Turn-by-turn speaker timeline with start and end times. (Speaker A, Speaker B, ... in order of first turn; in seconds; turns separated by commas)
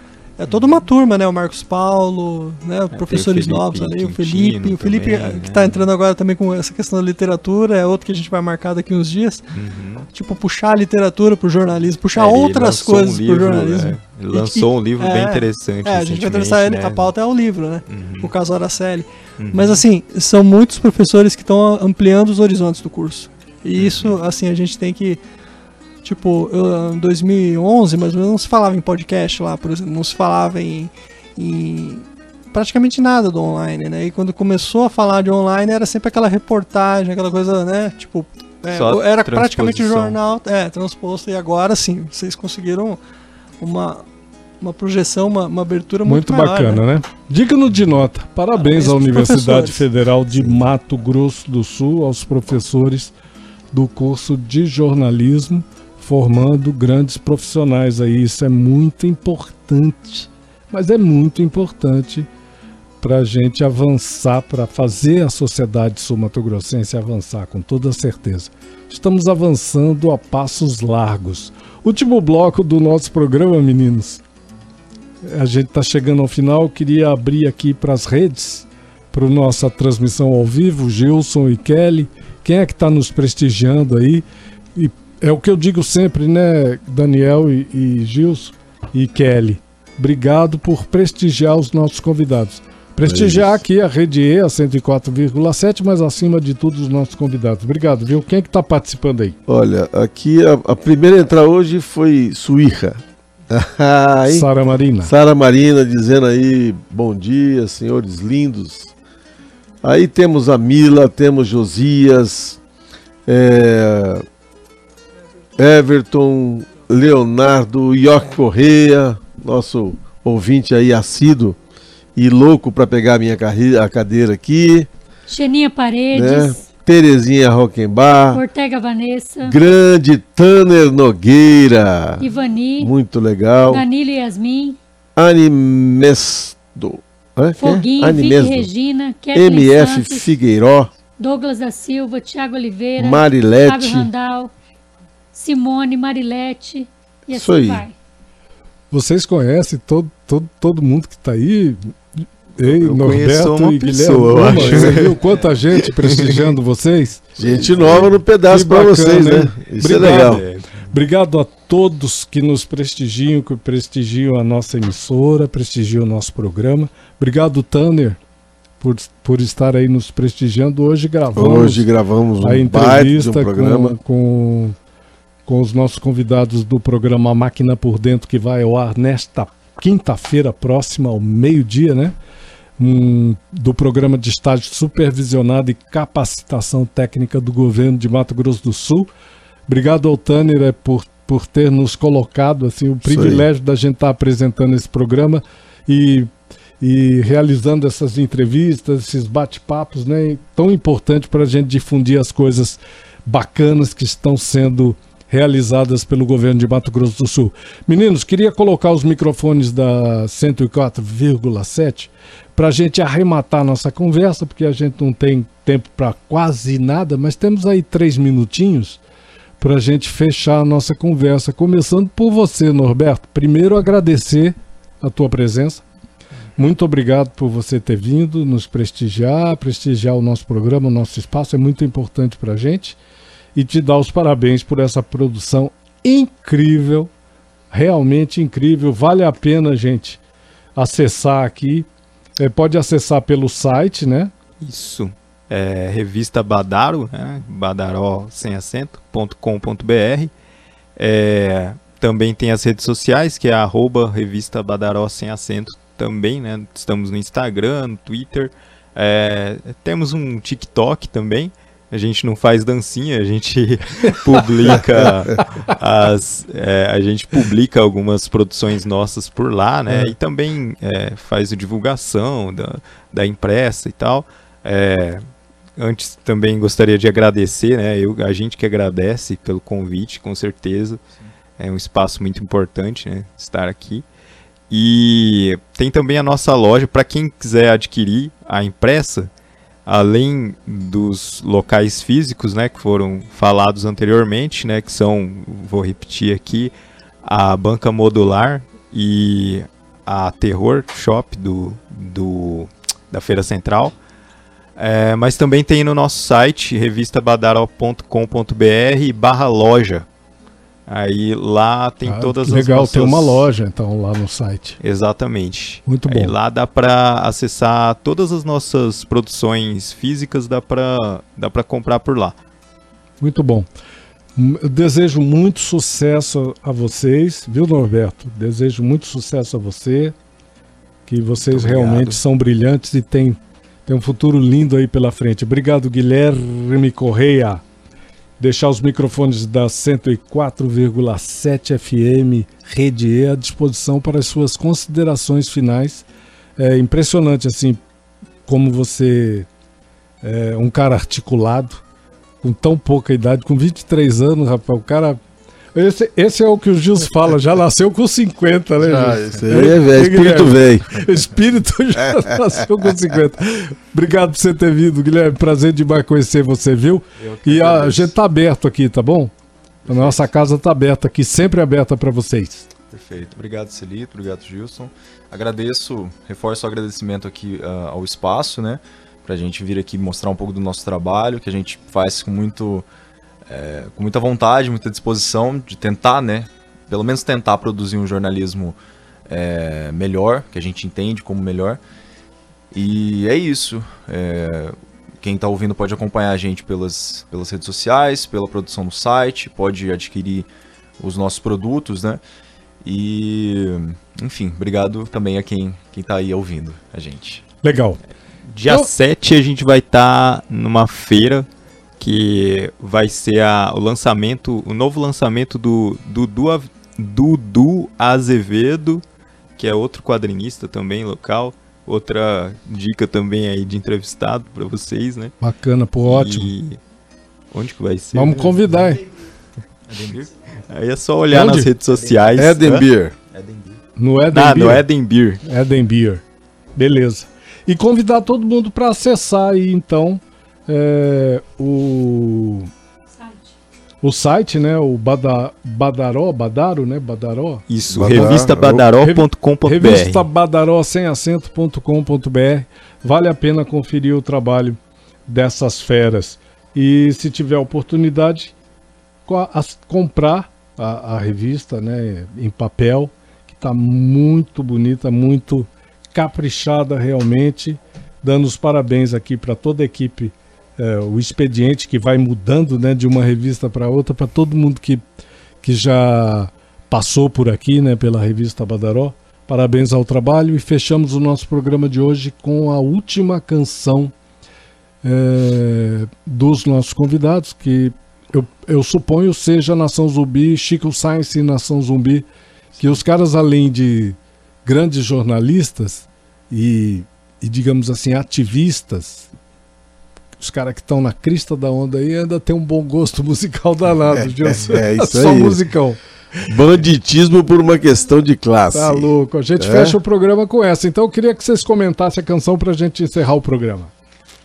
Speaker A: 0.4-9.5, Speaker B: 0.5-0.8, Speaker B: 2.9-5.9, Speaker B: 9.5-10.1, Speaker A: 10.1-25.2, Speaker B: 12.1-17.1, Speaker B: 17.9-18.3, Speaker B: 19.4-19.8, Speaker B: 23.7-24.2, Speaker A: 26.0-43.0, Speaker B: 38.7-40.2, Speaker A: 43.6-44.0, Speaker A: 44.6-46.8, Speaker C: 46.0-53.1, Speaker A: 48.6-49.8, Speaker C: 53.7-62.3, Speaker C: 63.0-74.2, Speaker C: 75.2-84.2, Speaker C: 84.7-99.4, Speaker D: 93.0-93.6, Speaker D: 99.5-104.5, Speaker C: 104.2-105.1, Speaker D: 105.0-108.9, Speaker D: 109.8-112.6, Speaker D: 113.3-114.2, Speaker D: 115.6-121.6, Speaker D: 122.2-124.9, Speaker E: 125.3-126.7, Speaker D: 126.1-128.4, Speaker E: 128.3-129.6, Speaker D: 129.4-132.3, Speaker E: 132.2-132.9, Speaker D: 132.8-133.8, Speaker E: 133.7-134.8, Speaker D: 135.2-138.7, Speaker E: 137.6-140.3, Speaker D: 139.3-140.9, Speaker E: 141.2-144.5, Speaker D: 142.9-144.1, Speaker E: 145.3-147.9, Speaker D: 147.3-147.8, Speaker C: 148.9-151.9, Speaker C: 152.6-168.2, Speaker B: 152.6-156.5, Speaker D: 154.1-155.1, Speaker D: 157.4-160.4, Speaker B: 159.8-160.9, Speaker C: 168.8-171.9, Speaker D: 171.3-173.9, Speaker C: 172.4-174.8, Speaker C: 175.4-182.2, Speaker C: 182.8-189.1, Speaker C: 189.7-219.0, Speaker D: 193.0-193.5, Speaker C: 219.6-225.8, Speaker C: 226.6-233.0, Speaker C: 233.5-237.1, Speaker C: 237.7-240.2, Speaker C: 240.8-241.9, Speaker C: 242.4-244.3, Speaker B: 244.6-250.3, Speaker B: 250.9-275.2, Speaker C: 269.9-270.1, Speaker B: 275.8-281.0, Speaker B: 281.6-284.0, Speaker B: 284.7-289.3, Speaker B: 289.9-296.7, Speaker B: 297.2-303.9, Speaker B: 304.8-310.1, Speaker B: 310.9-313.5, Speaker C: 312.1-314.8, Speaker B: 314.8-322.4, Speaker C: 315.9-316.3, Speaker C: 323.2-323.7, Speaker C: 324.4-330.1, Speaker C: 331.1-337.6, Speaker B: 331.4-332.2, Speaker C: 338.4-347.8, Speaker C: 348.4-349.5, Speaker C: 350.2-351.8, Speaker C: 352.4-355.2, Speaker C: 355.7-369.3, Speaker D: 358.8-361.0, Speaker F: 367.2-368.1, Speaker C: 369.9-372.7, Speaker F: 369.9-370.1, Speaker F: 372.9-382.9, Speaker F: 383.5-391.8, Speaker F: 392.7-400.5, Speaker F: 401.0-402.2, Speaker F: 402.8-407.4, Speaker C: 407.6-408.0, Speaker B: 408.5-411.5, Speaker B: 412.0-419.0, Speaker B: 419.6-425.3, Speaker C: 425.4-426.5, Speaker B: 426.1-426.8, Speaker B: 427.5-428.8, Speaker C: 428.1-429.0, Speaker F: 429.9-430.3, Speaker B: 430.7-432.9, Speaker C: 431.3-431.7, Speaker F: 431.9-432.5, Speaker D: 432.4-433.1, Speaker F: 433.3-433.8, Speaker C: 434.0-434.9, Speaker B: 434.3-435.4, Speaker C: 435.4-436.2, Speaker C: 436.8-442.7, Speaker E: 443.1-443.5, Speaker C: 444.0-458.5, Speaker B: 447.7-450.2, Speaker D: 447.9-448.9, Speaker C: 459.2-475.0, Speaker C: 475.6-484.1, Speaker C: 485.0-492.2, Speaker C: 492.8-499.3, Speaker C: 500.4-506.0, Speaker D: 504.4-505.6, Speaker D: 506.5-510.0, Speaker C: 508.7-513.9